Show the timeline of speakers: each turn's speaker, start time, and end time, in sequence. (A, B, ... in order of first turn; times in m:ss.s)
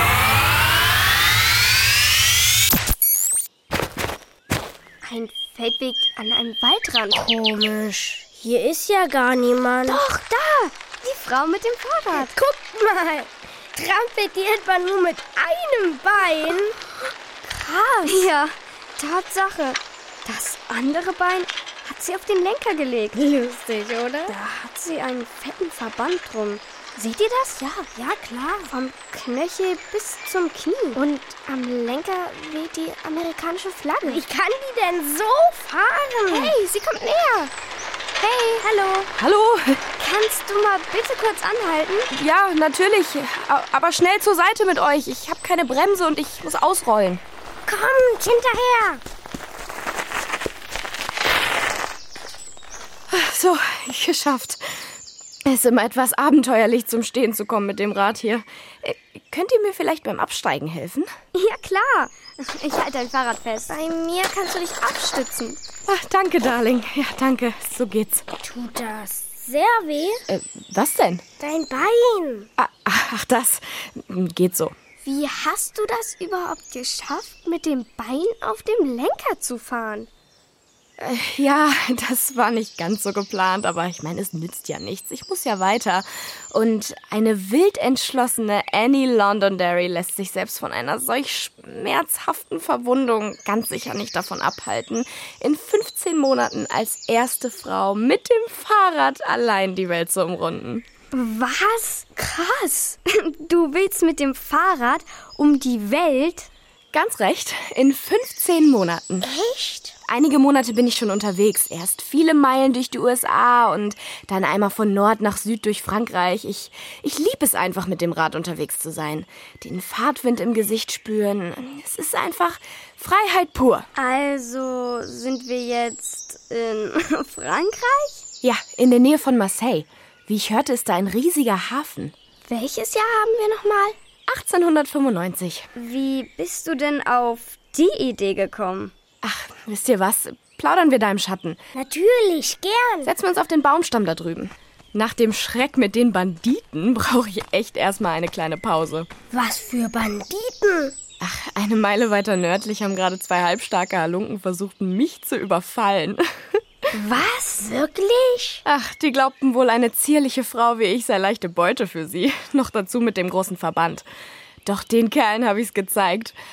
0:05.0-0:07.2 A
0:07.1-0:10.0 B
0:09.8-0:12.3 A
0:12.1-0:16.8 B
0:17.4-0:23.2 A
0:17.8-0:18.2 B
0:23.1-0:24.3 B
0:24.3-0:34.2 A
0:34.0-0:36.6 B
0:36.3-0:37.5 A
0:38.2-0:38.7 A
0:38.6-0:39.1 B
0:39.2-0:39.8 C
0:40.0-0:42.1 A
0:42.1-0:47.2 C
0:47.6-0:49.0 B
0:53.1-0:54.6 C
0:55.4-1:01.1 C
1:01.3-1:05.6 A
1:05.9-1:08.2 C
1:08.4-1:10.2 B
1:10.3-1:11.2 C
1:11.4-1:12.5 B
1:12.6-1:14.7 C
1:15.0-1:20.1 A
1:21.0-1:40.8 C
1:41.1-1:46.5 A
1:46.9-1:49.3 C
1:49.2-1:50.0 B
1:50.0-2:03.9 C
2:04.0-2:08.2 A
2:08.4-2:12.1 C
2:12.4-2:14.0 A
2:14.3-2:15.7 C
2:15.8-2:18.9 A
2:19.2-2:21.6 C
2:21.7-2:23.1 B
2:23.0-2:29.1 C
2:29.3-2:30.9 B
2:31.2-2:36.2 C
2:36.9-2:38.6 B
2:37.0-2:37.7 A
2:38.6-2:44.0 C
2:44.6-2:46.3 C